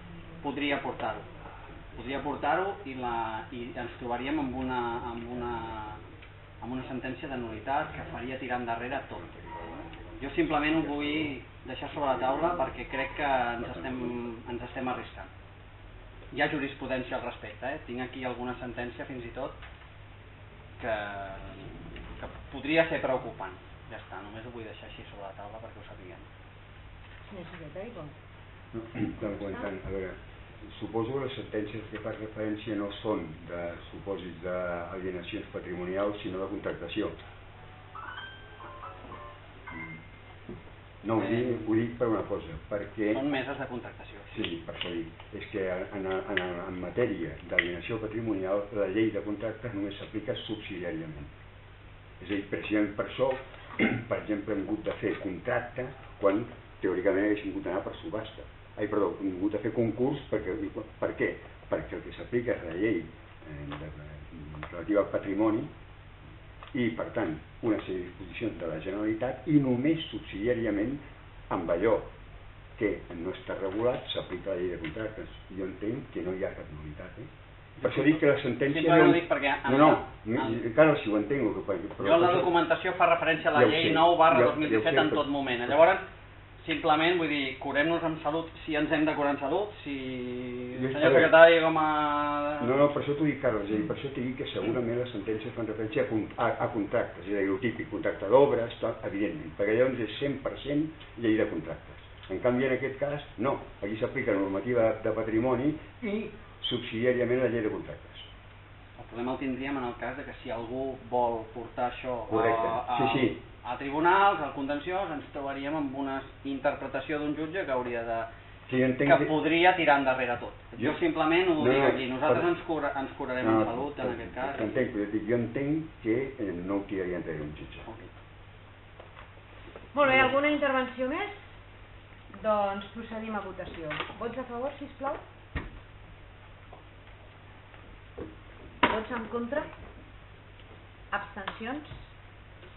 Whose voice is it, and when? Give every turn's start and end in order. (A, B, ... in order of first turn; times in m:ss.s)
0:00.4-0:01.3 A
0:02.0-0:06.0 A
0:06.6-0:09.2 A
0:09.1-0:11.3 B
0:10.2-0:15.3 A
0:12.0-0:12.7 B
0:13.6-0:14.2 B
0:16.3-0:19.6 A
0:20.8-0:26.3 A
0:27.2-0:28.1 C
0:28.7-0:37.2 B
0:29.3-0:29.7 C
0:39.7-0:40.0 B
0:41.0-0:43.2 B
0:41.2-0:41.7 A
0:43.1-0:44.5 A
0:44.3-0:51.3 B
0:52.2-1:05.7 B
1:06.7-1:12.1 B
1:12.8-1:17.3 B
1:17.8-1:20.6 A
1:17.8-1:22.5 B
1:22.0-1:26.0 A
1:23.5-1:25.2 B
1:26.6-1:32.7 A
1:30.7-1:31.3 B
1:32.6-1:48.3 B
1:49.0-1:58.3 A
1:52.3-1:53.4 B
1:58.7-1:59.3 B
1:59.0-2:04.7 A
2:01.5-2:02.5 B
2:03.4-2:07.9 B
2:09.9-2:11.4 C
2:12.3-2:15.2 C
2:18.8-2:19.7 C
2:21.1-2:22.0 C